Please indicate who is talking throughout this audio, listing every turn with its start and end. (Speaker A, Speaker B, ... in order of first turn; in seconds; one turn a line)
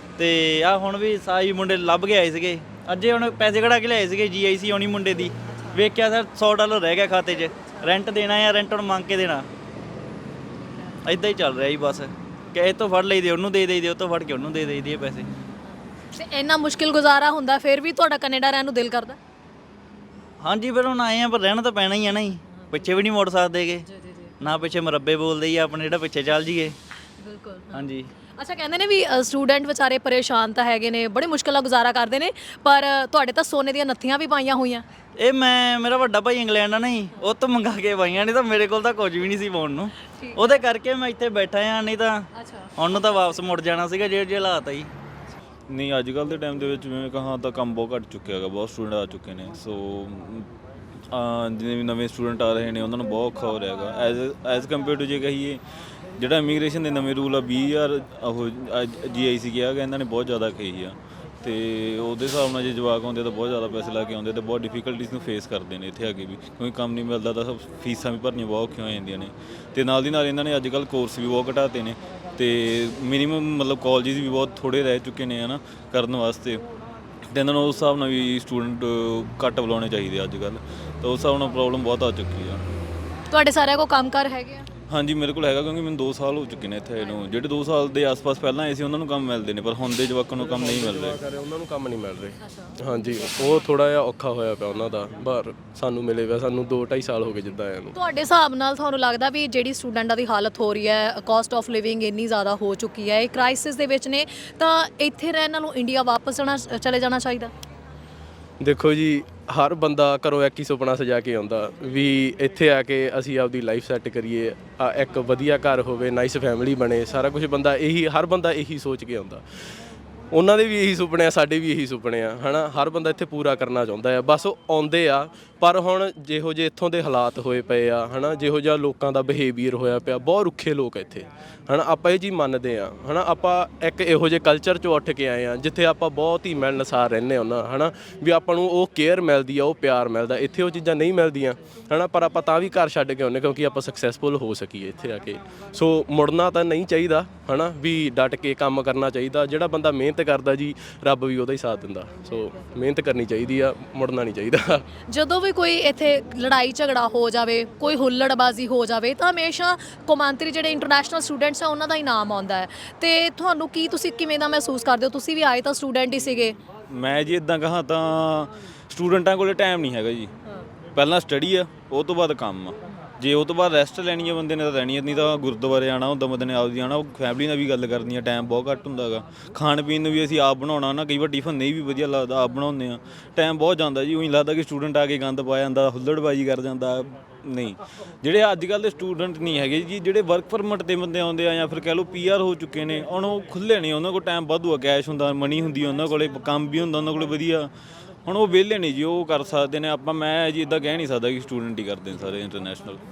Speaker A: 0.2-9.5
Speaker B: 5.5-5.8
Speaker A: 11.1-15.3
Speaker B: 16.1-19.2
Speaker A: 20.4-23.9
Speaker B: 23.9-24.3
Speaker A: 24.4-26.8
Speaker B: 27.2-34.9
Speaker A: 27.7-28.1
Speaker A: 35.2-42.2
Speaker B: 40.1-40.6
Speaker B: 42.3-42.7
Speaker A: 42.8-44.9
Speaker C: 45.7-50.5
Speaker C: 51.1-55.6
Speaker C: 56.2-76.6
Speaker C: 77.3-82.8
Speaker B: 83.3-84.7
Speaker C: 84.9-91.2
Speaker D: 90.3-98.0
Speaker B: 92.5-93.5
Speaker B: 97.9-107.5
Speaker D: 108.6-119.4
Speaker D: 120.3-154.8
Speaker B: 155.1-166.6
Speaker C: 166.9-170.3
Speaker C: 170.9-197.7
Speaker C: 198.2-203.0